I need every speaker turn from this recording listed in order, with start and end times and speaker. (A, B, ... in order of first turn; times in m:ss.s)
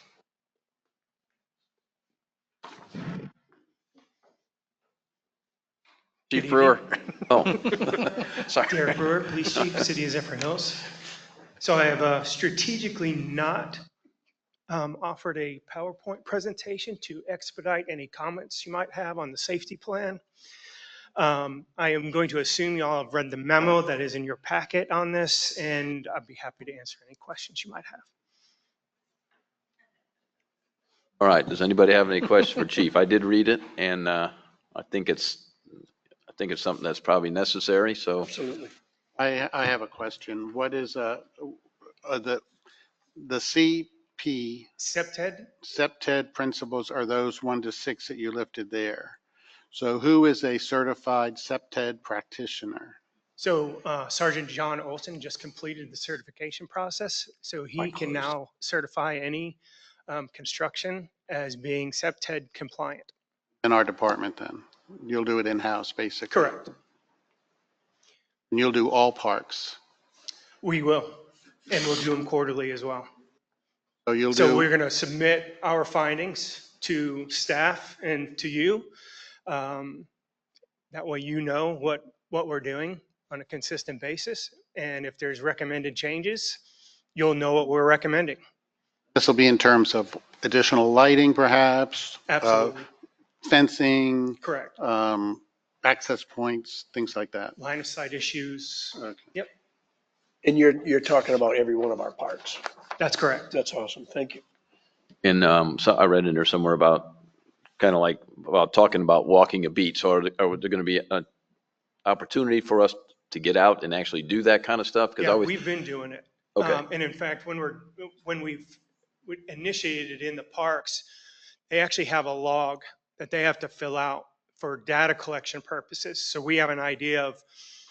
0:06.3-0:08.8 A
0:06.3-0:06.8 B
0:08.7-0:10.9 B
0:11.6-0:13.9 B
0:14.7-0:20.2 B
0:21.2-0:28.1 B
0:31.2-0:35.5 A
0:36.3-0:38.3 A
0:38.2-0:38.7 C
0:39.2-0:42.4 D
0:43.2-0:44.7 D
0:44.8-0:45.5 B
0:45.6-0:49.2 D
0:49.7-0:53.0 D
0:53.4-1:03.1 B
1:03.6-1:06.6 D
1:06.3-1:06.7 B
1:08.5-1:09.8 D
1:10.6-1:13.1 B
1:14.1-1:14.7 D
1:14.3-1:18.9 B
1:19.5-1:20.1 B
1:20.9-1:26.6 B
1:27.2-1:28.4 B
1:29.2-1:32.8 D
1:32.3-1:32.9 B
1:33.4-1:37.6 D
1:34.4-1:34.8 B
1:37.6-1:39.5 B
1:39.0-1:39.3 D
1:40.4-1:42.6 C
1:43.0-1:43.5 B
1:43.5-1:44.4 C
1:45.2-1:47.2 A
1:47.8-1:51.2 A
1:52.0-1:55.6 A
1:55.2-2:01.1 B
1:56.6-1:56.8 A
2:01.7-2:07.4 B